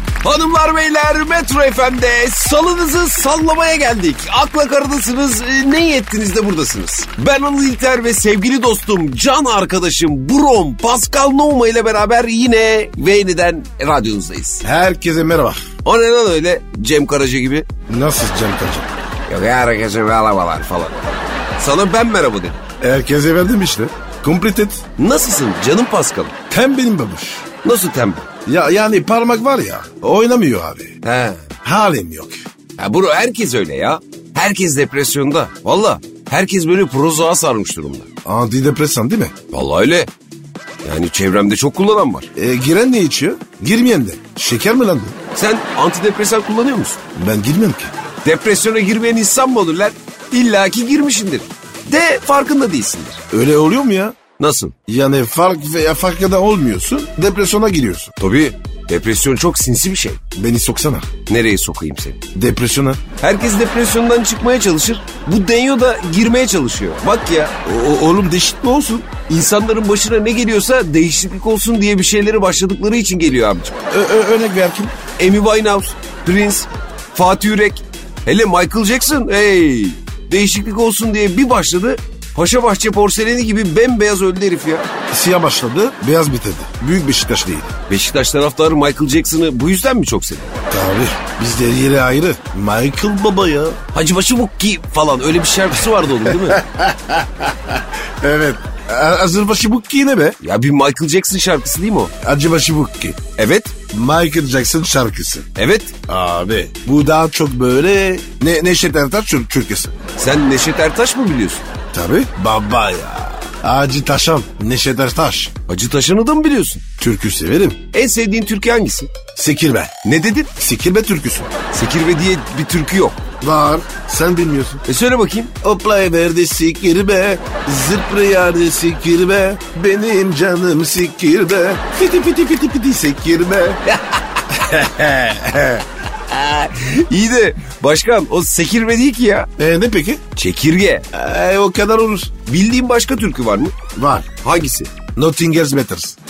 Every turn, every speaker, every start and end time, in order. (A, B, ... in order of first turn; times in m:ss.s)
0:00.2-0:14.6 A
0:14.6-0:15.6 B
0:15.8-0:17.7 A
0:17.9-0:18.9 B
0:19.3-0:22.6 A
0:22.8-0:24.8 B
0:25.0-0:26.3 A
0:26.5-0:27.5 B
0:27.6-0:28.3 A
0:28.5-0:31.0 B
0:31.0-0:31.4 A
0:31.6-0:32.4 B
0:32.8-0:38.1 A
0:38.2-0:39.3 B
0:39.5-0:40.1 A
0:40.8-0:42.3 A
0:42.4-0:45.2 B
0:45.4-0:47.0 A
0:47.2-0:47.9 B
0:48.2-0:53.2 A
0:53.3-0:54.2 B
0:54.4-0:54.8 A
0:54.9-0:58.1 B
0:58.2-1:00.2 A
1:00.4-1:01.1 B
1:01.3-1:02.2 A
1:02.3-1:03.0 B
1:03.2-1:07.5 A
1:07.6-1:09.1 B
1:09.3-1:13.8 A
1:13.9-1:14.9 B
1:15.2-1:24.9 A
1:25.1-1:27.7 B
1:27.9-1:30.5 A
1:30.7-1:33.8 B
1:33.9-1:36.6 A
1:36.3-1:40.4 B
1:40.4-1:42.1 A
1:42.2-1:43.2 B
1:43.4-1:43.7 A
1:43.9-1:45.5 B
1:45.6-1:45.9 A
1:46.1-1:50.0 B
1:50.2-1:51.6 A
1:51.9-1:55.5 B
1:55.7-1:56.8 A
1:57.0-1:57.8 B
1:57.9-1:59.2 A
1:59.4-2:00.0 B
2:00.0-2:00.5 A
2:00.6-2:01.5 B
2:01.7-2:03.2 A
2:03.4-2:04.8 B
2:04.8-2:05.5 A
2:05.6-2:13.8 B
2:13.9-2:14.6 A
2:14.5-2:15.8 B
2:16.3-2:19.5 A
2:19.6-2:20.2 B
2:20.3-2:21.1 A
2:21.1-2:22.3 B
2:22.4-2:23.8 A
2:24.0-2:24.3 B
2:24.4-2:24.9 A
2:25.2-2:26.2 B